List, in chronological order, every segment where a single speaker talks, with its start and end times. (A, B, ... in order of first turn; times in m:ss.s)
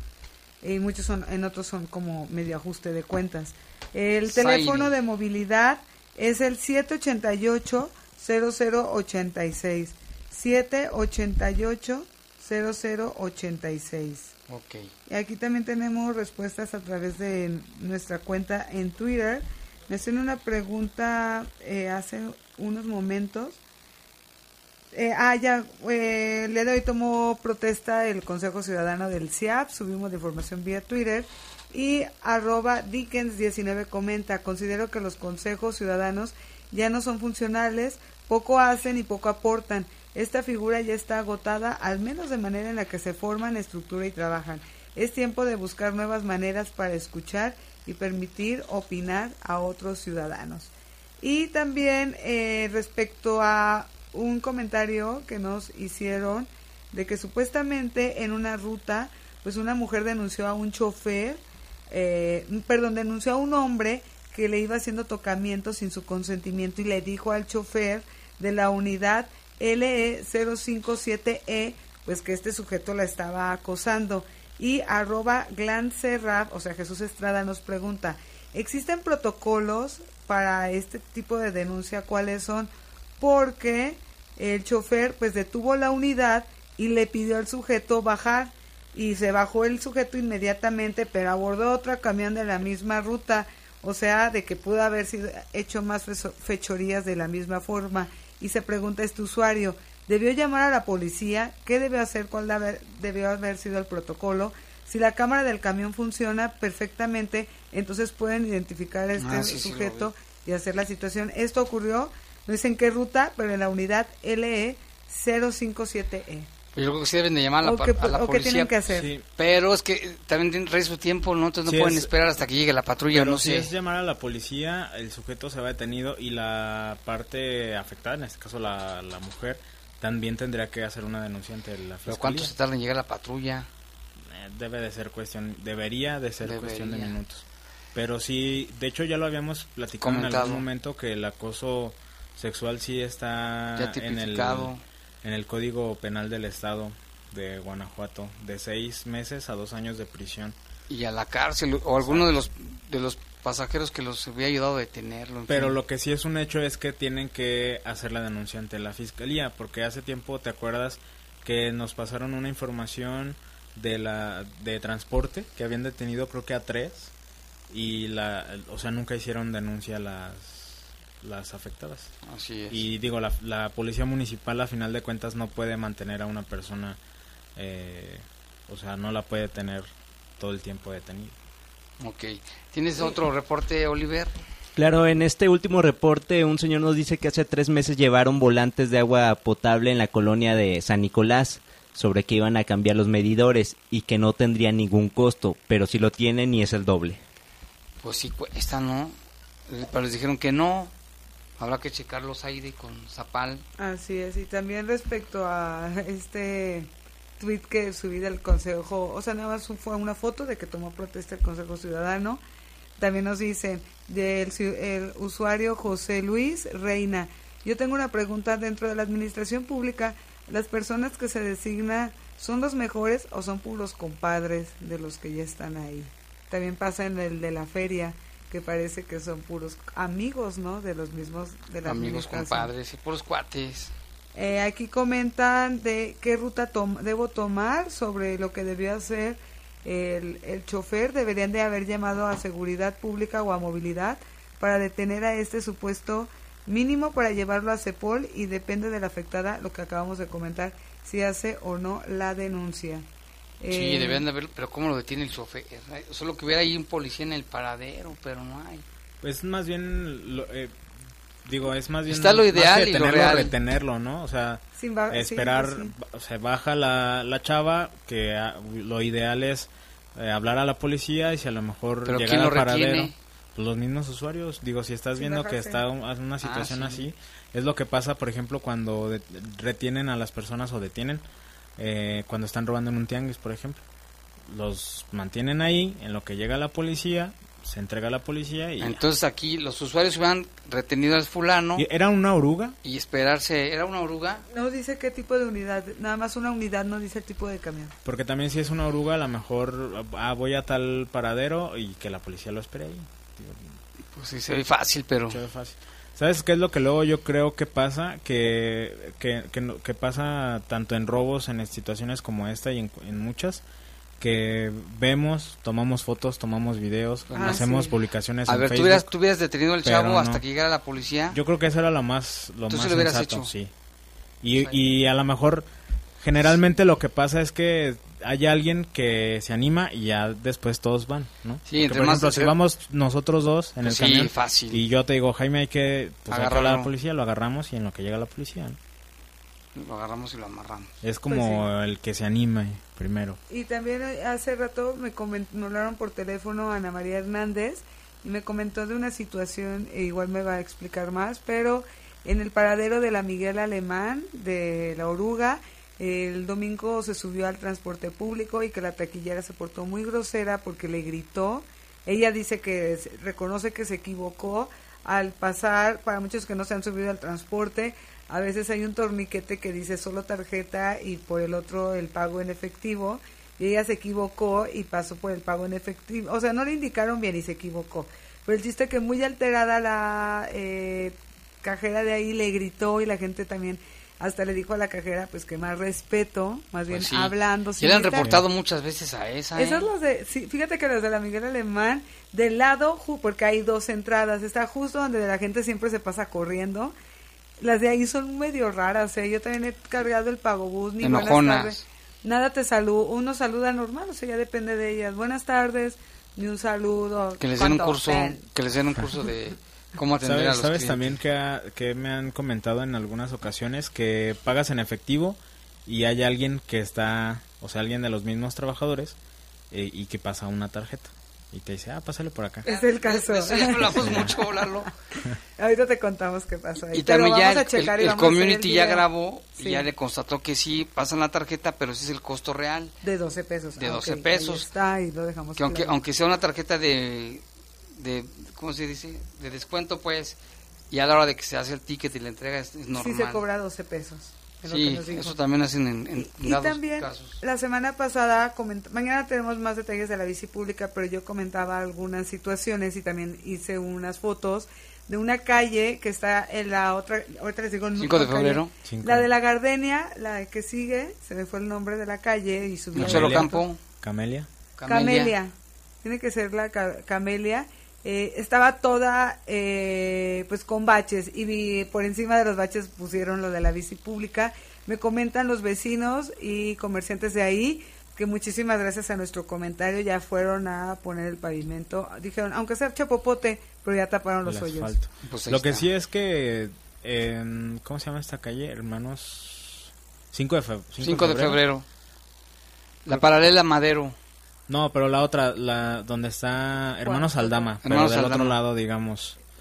0:00.6-0:14.3 A
0:04.3-0:04.9 B
0:14.5-0:14.9 B
0:15.1-0:23.6 A
0:24.9-1:56.5 A
1:49.2-1:50.1 B
1:56.8-1:58.7 B
1:57.6-1:59.1 A
1:58.9-1:59.3 C
1:59.4-2:03.7 B
2:01.7-2:02.1 C
2:03.1-2:12.5 C
2:12.1-2:13.7 B
2:14.3-2:30.6 C
2:16.4-2:17.2 B
2:20.0-2:20.6 B
2:23.8-2:24.8 B
2:30.9-2:35.8 B
2:32.0-2:32.4 C
2:35.5-2:47.1 C
2:47.7-2:52.1 C
2:52.2-2:52.8 B
2:52.7-2:57.0 C
2:57.6-3:01.4 C
3:02.0-3:04.3 B
3:04.8-3:17.2 D
3:18.0-3:19.2 B
3:19.7-3:20.9 B
3:21.6-3:23.6 B
3:23.8-3:32.4 A
3:33.0-3:52.7 A
3:51.8-3:53.9 B
3:54.4-4:13.0 A
4:13.6-4:14.2 A
4:13.7-4:18.8 B
4:19.2-4:20.8 C
4:21.4-4:41.2 C
4:22.1-4:23.5 B
4:24.8-4:25.9 A
4:32.1-4:33.2 B
4:35.2-4:35.8 A
4:36.4-4:37.1 B
4:41.8-4:43.8 C
4:44.5-4:49.0 C
4:48.8-4:51.8 B
4:51.8-4:52.8 C
4:52.8-4:54.5 B
4:54.5-4:58.0 A
4:58.0-5:03.8 C
5:04.1-5:05.4 B
5:05.3-5:13.6 C
5:14.2-5:19.1 C
5:17.3-5:17.7 B
5:17.3-5:17.9 A
5:18.5-5:21.4 B
5:19.8-5:20.4 C
5:21.3-5:23.7 C
5:22.7-5:23.5 B
5:24.4-5:25.7 C
5:26.2-5:38.8 C
5:31.7-5:32.6 B
5:33.8-5:34.8 B
5:36.3-5:36.9 B
5:39.8-5:40.9 B
5:41.0-5:43.4 C
5:41.3-5:41.7 A
5:43.5-6:28.3 A
6:26.9-6:29.9 B
6:29.6-6:36.9 A
6:37.6-6:48.4 A
6:41.0-6:41.8 B
6:47.4-6:51.2 B
6:50.2-6:59.2 C
6:59.7-7:02.6 C
7:02.6-7:04.7 A
7:02.6-7:04.9 B
7:04.0-7:04.3 C
7:05.6-7:09.9 A
7:06.9-7:13.0 B
7:13.0-7:16.0 A
7:13.8-7:14.7 B
7:15.6-7:17.4 B
7:18.0-7:20.4 B
7:20.9-7:23.4 B
7:22.9-7:25.4 A
7:24.7-7:27.4 B
7:26.2-7:43.6 A
7:38.0-7:38.7 B
7:38.8-7:39.3 C
7:42.9-7:43.8 B
7:43.0-7:44.5 C
7:44.8-7:45.3 B
7:44.9-8:05.0 A
8:04.4-8:11.6 C
8:05.2-8:05.9 B
8:11.0-8:11.9 B
8:13.0-8:14.2 B
8:13.1-8:13.4 C
8:14.7-8:19.4 C
8:17.0-8:17.7 A
8:17.8-8:18.6 B